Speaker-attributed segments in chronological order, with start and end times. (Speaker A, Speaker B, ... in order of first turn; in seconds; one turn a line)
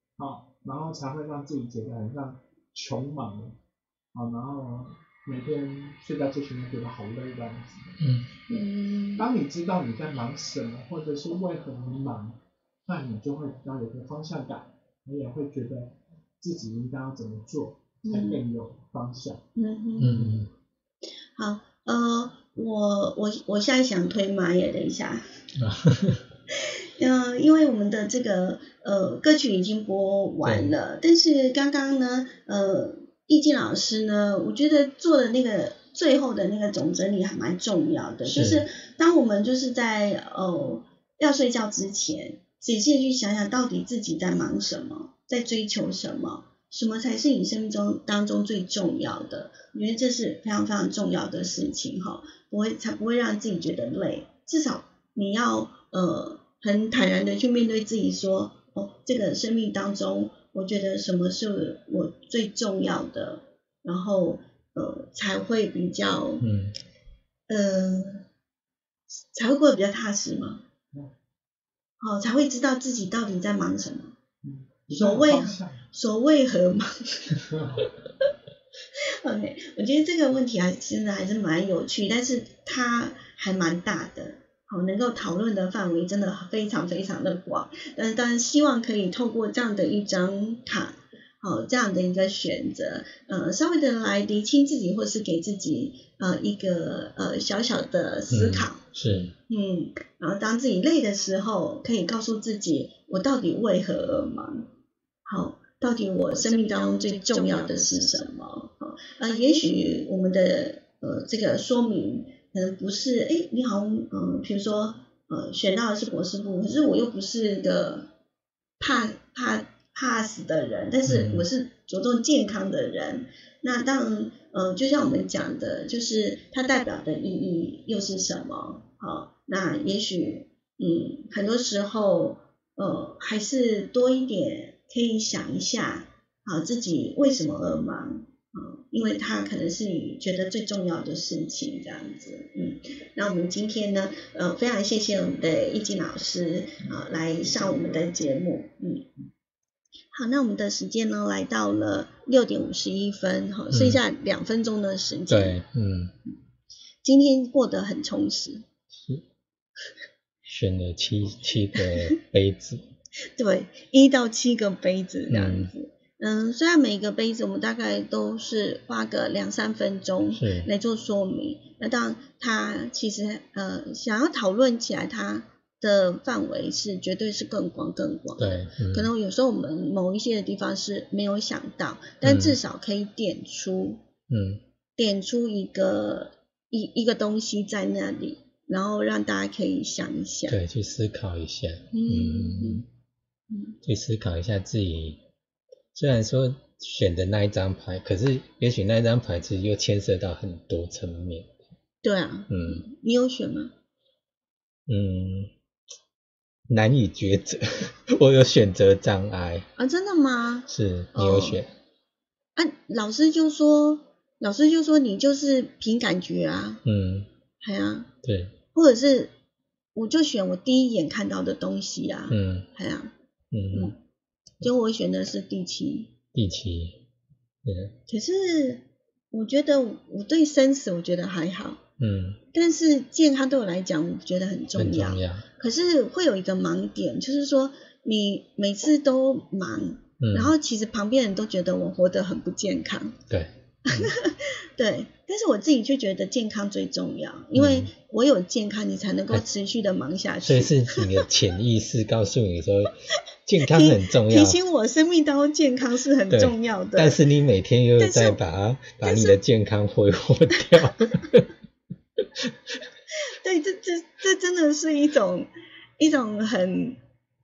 Speaker A: 0.2-3.5
Speaker A: 4.1-8.0
Speaker B: 8.0-8.3
Speaker C: 8.5-9.2
Speaker A: 9.2-19.4
Speaker C: 18.1-18.4
Speaker C: 19.5-20.1
Speaker B: 20.0-20.5
Speaker A: 20.1-20.4
Speaker C: 21.3-25.2
Speaker B: 25.6-26.2
Speaker C: 27.0-66.4
Speaker B: 30.4-30.8
Speaker B: 38.2-38.6
Speaker B: 66.4-66.7
Speaker C: 67.5-68.2
Speaker C: 69.3-70.6
Speaker C: 72.0-74.1
Speaker A: 74.4-75.8
Speaker C: 74.9-77.4
Speaker A: 77.3-77.8
Speaker C: 79.2-98.8
Speaker B: 98.3-99.3
Speaker C: 99.5-104.6
Speaker C: 105.2-118.0
Speaker C: 118.8-149.1
Speaker B: 121.1-121.5
Speaker A: 146.8-148.1
Speaker C: 150.1-155.6
Speaker B: 153.7-154.0
Speaker B: 155.3-156.1
Speaker C: 157.0-158.6
Speaker B: 160.5-162.8
Speaker C: 161.8-162.1
Speaker C: 163.3-184.0
Speaker B: 165.3-165.7
Speaker B: 170.3-170.7
Speaker B: 178.4-179.1
Speaker B: 182.2-182.6
Speaker B: 184.3-184.6
Speaker C: 185.0-190.6
Speaker B: 190.5-192.8
Speaker C: 191.9-192.8
Speaker C: 193.5-193.8
Speaker B: 193.8-195.2
Speaker B: 195.9-201.6
Speaker C: 202.0-203.7
Speaker B: 202.5-202.8
Speaker B: 204.9-205.5
Speaker B: 206.7-209.7
Speaker C: 209.8-211.6
Speaker B: 210.7-211.7
Speaker C: 212.6-216.8
Speaker B: 216.8-217.3
Speaker C: 217.6-218.1
Speaker B: 218.2-218.5
Speaker C: 218.7-219.3
Speaker C: 219.9-223.1
Speaker B: 222.3-222.7
Speaker B: 223.5-223.9
Speaker C: 224.6-226.1
Speaker B: 226.3-227.0
Speaker B: 227.6-227.9
Speaker C: 228.1-231.8
Speaker B: 232.0-232.4
Speaker C: 232.5-243.2
Speaker B: 234.8-235.4
Speaker B: 240.2-240.5
Speaker B: 243.3-244.1
Speaker C: 243.8-251.2
Speaker B: 247.5-247.9
Speaker B: 250.4-252.9
Speaker B: 253.4-254.6
Speaker C: 253.6-257.2
Speaker B: 256.3-261.5
Speaker C: 258.0-258.4
Speaker C: 259.0-259.4
Speaker C: 263.3-267.0